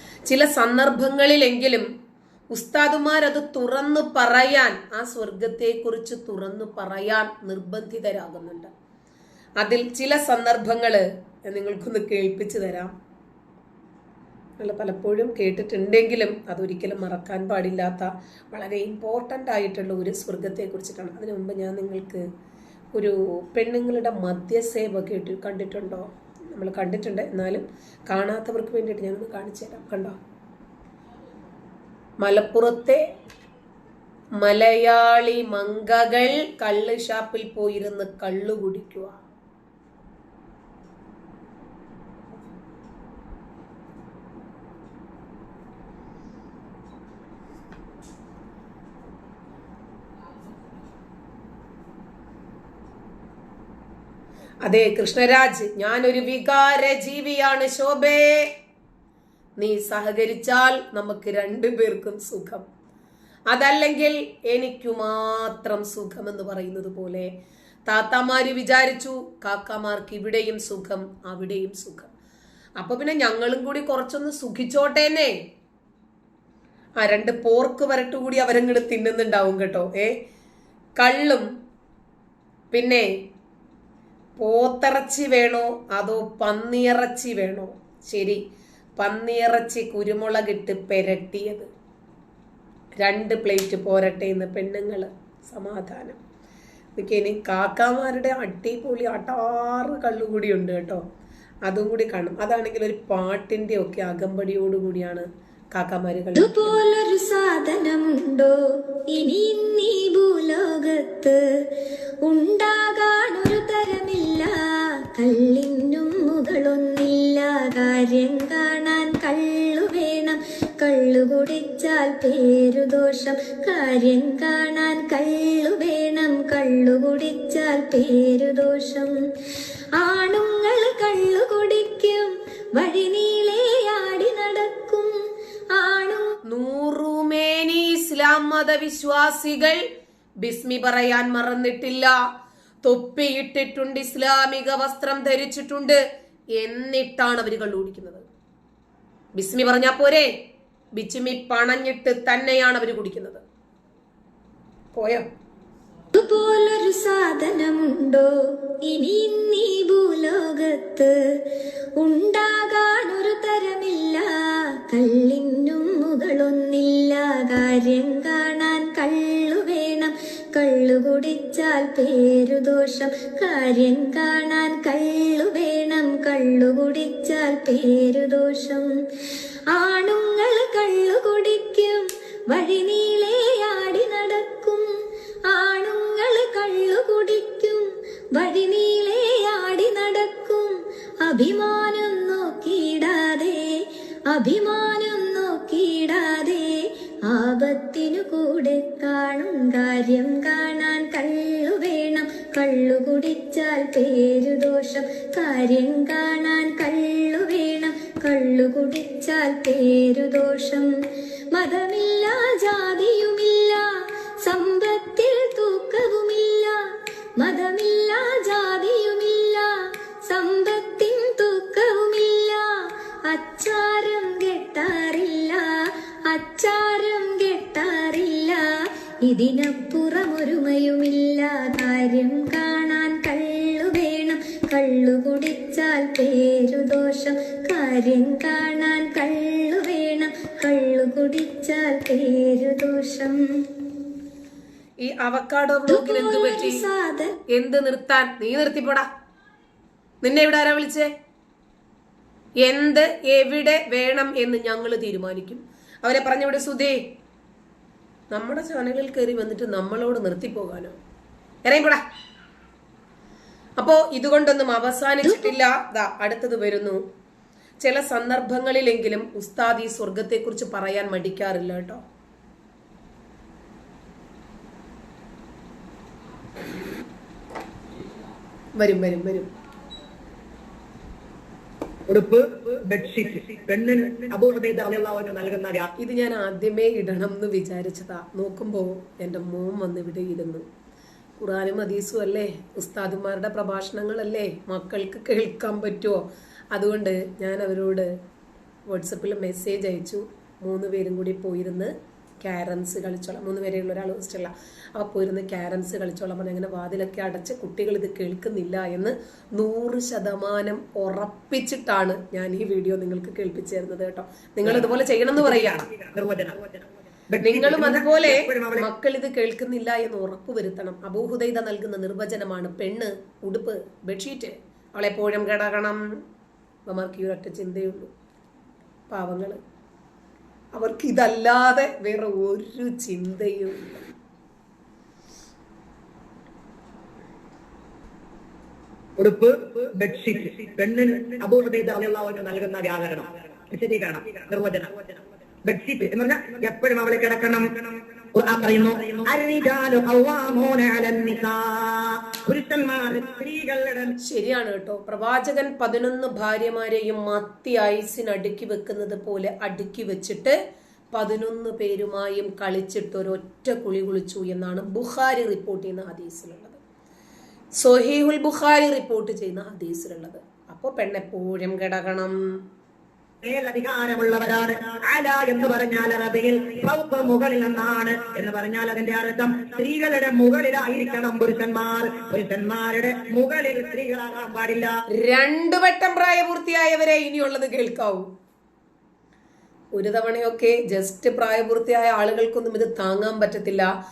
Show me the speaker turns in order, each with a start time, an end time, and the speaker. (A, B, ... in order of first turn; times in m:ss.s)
0:00.3-0:01.9 A
0:02.5-0:08.7 A
0:09.6-0:12.9 A
0:14.6-0:22.2 A
0:22.9-0:30.2 A
0:32.2-0:33.0 A
0:34.4-0:39.2 A
0:54.6-0:58.5 A
0:59.6-1:02.7 A
1:03.5-1:07.3 A
1:07.9-1:12.1 A
1:12.8-1:15.3 A
1:17.0-1:20.2 A
1:21.0-1:21.5 A
1:22.7-1:23.1 A
1:24.4-1:28.4 A
1:29.0-1:31.7 A
1:33.0-1:36.2 A
1:37.0-1:41.0 A
1:41.6-1:46.7 A
1:46.3-1:48.6 B
1:49.1-2:09.1 B
2:10.0-2:15.1 B
2:15.7-2:16.4 B
2:16.5-2:19.8 A
2:20.4-2:22.2 A
2:22.8-2:26.0 A
2:26.6-2:28.2 A
2:29.4-2:30.3 A
2:31.0-2:33.4 A
2:34.9-2:35.3 A
2:36.1-2:58.9 B
2:59.7-3:04.9 B
3:05.5-3:07.8 B
3:08.4-3:30.9 B
3:31.5-3:36.8 B
3:37.4-3:48.7 B
3:49.2-4:03.9 B
4:05.0-4:06.8 A
4:05.9-4:07.4 B
4:07.5-4:09.1 A
4:10.2-4:11.1 A
4:12.6-4:17.0 A
4:18.3-4:21.0 A
4:21.6-4:22.0 A
4:23.8-4:27.0 A
4:27.8-4:32.0 A
4:38.8-4:39.5 A
4:42.1-4:45.9 C
4:46.0-4:50.6 A
4:51.4-4:58.1 A
4:58.9-5:15.8 A
5:14.6-5:16.8 C
5:17.3-5:18.9 C
5:17.4-5:26.0 A
5:26.9-5:28.1 A
5:29.1-5:29.6 A
5:30.7-5:34.1 A
5:39.2-5:47.8 C
5:48.3-5:54.1 C
5:54.2-6:00.6 A
6:01.1-6:06.8 A
6:07.8-6:12.3 A
6:13.4-6:25.0 C
6:25.1-6:28.2 A
6:29.9-6:33.9 A